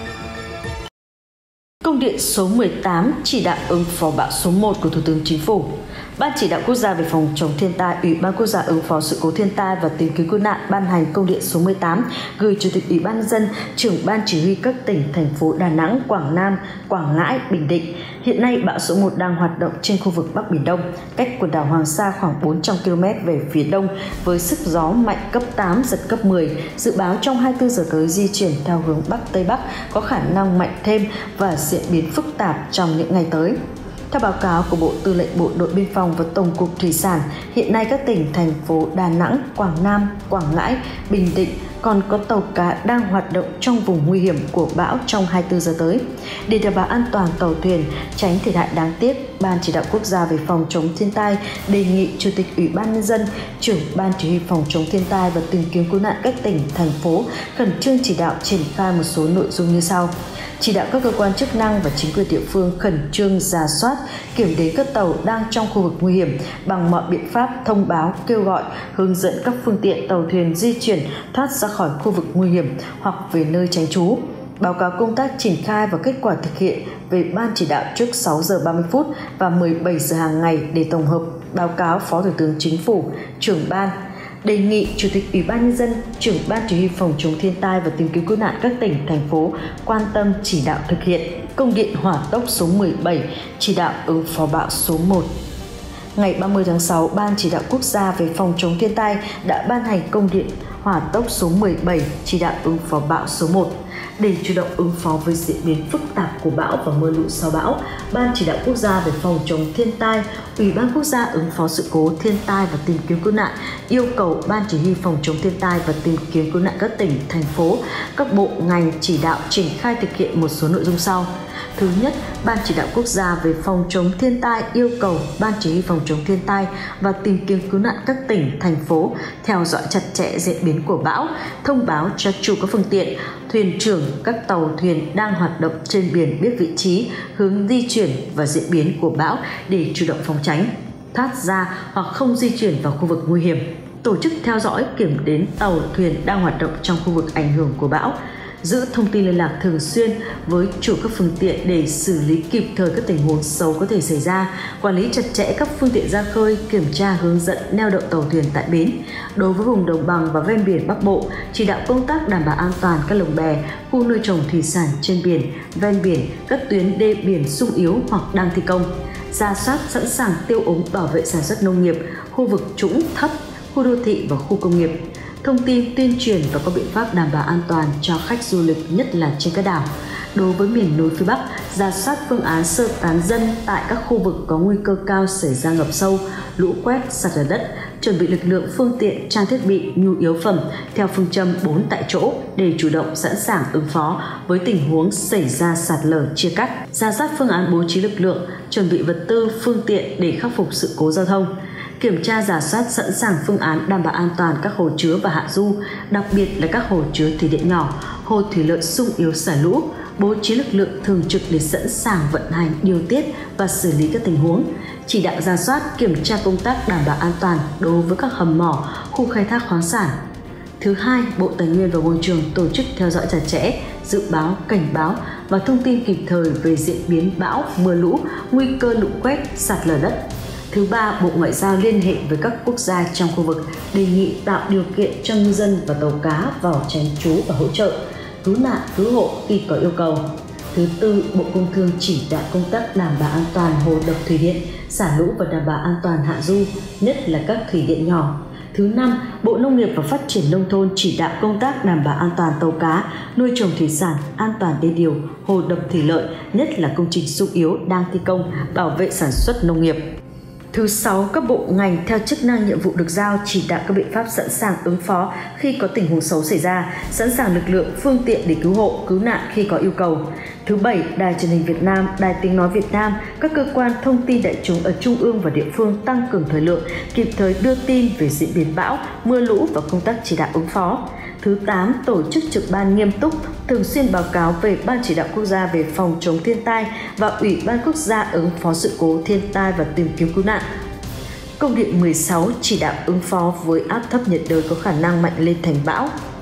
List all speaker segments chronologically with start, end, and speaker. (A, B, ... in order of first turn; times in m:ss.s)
0:01.8-0:33.6 A
0:34.1-1:35.3 A
1:36.2-3:40.2 A
3:40.8-3:50.2 A
3:50.7-4:20.0 A
4:20.7-4:50.6 A
4:51.6-4:56.1 A